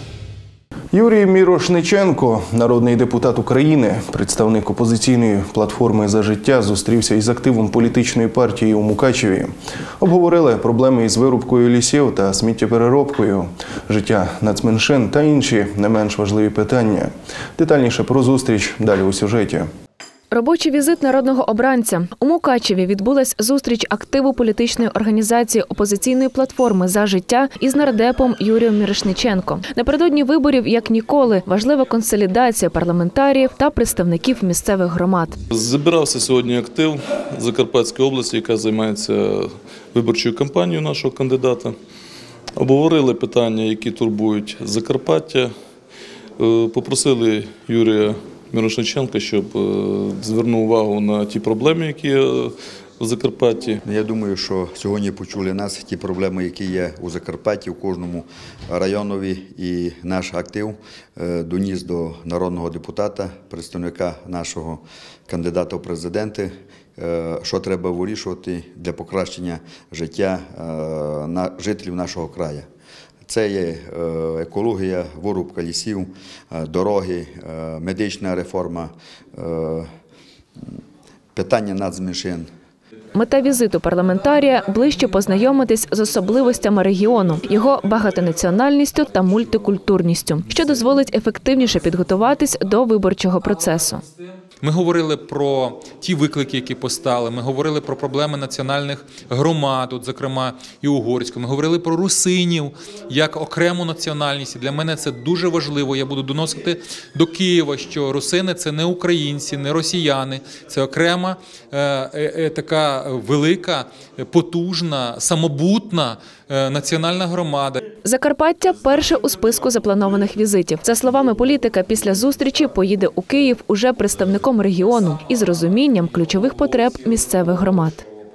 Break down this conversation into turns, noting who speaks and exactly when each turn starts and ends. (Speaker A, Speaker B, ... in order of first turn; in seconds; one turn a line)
Speaker A: 0.9-19.7
Speaker B: 20.3-35.4
Speaker C: 35.5-41.7
Speaker C: 42.6-45.5
Speaker C: 46.4-53.8
Speaker D: 53.8-72.7
Speaker D: 73.2-79.9
Speaker D: 81.3-82.5
Speaker B: 83.1-94.0
Speaker E: 94.6-117.8
Speaker B: 118.0-128.0